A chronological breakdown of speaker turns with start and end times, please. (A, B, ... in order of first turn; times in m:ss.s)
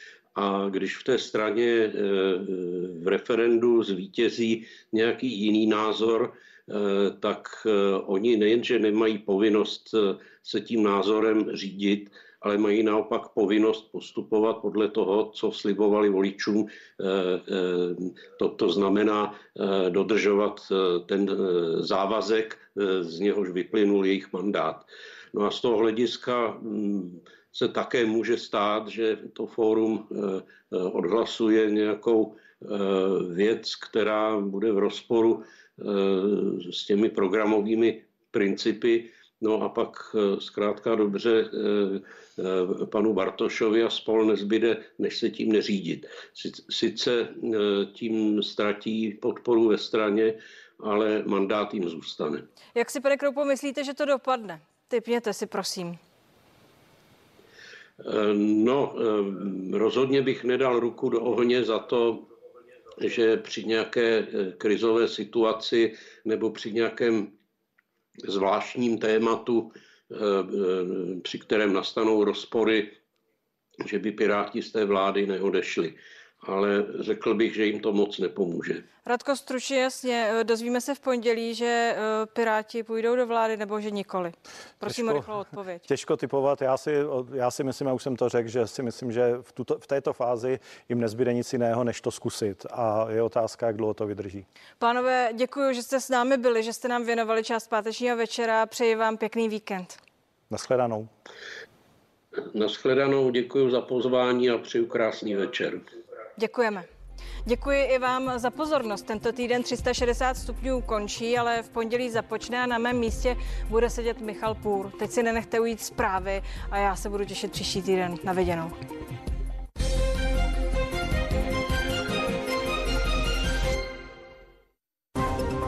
0:00.3-0:52.4 A
0:52.7-0:56.0 B
0:58.0-1:02.3 A
1:03.0-1:07.3 A
1:08.2-1:13.0 A
1:13.8-1:18.8 A
1:19.0-1:25.8 B
1:24.9-1:25.2 C
1:25.9-1:34.4 C
1:34.8-1:40.0 B
1:40.5-1:41.1 C
1:42.4-1:45.8 A
1:46.4-1:46.9 B
1:47.4-1:58.8 B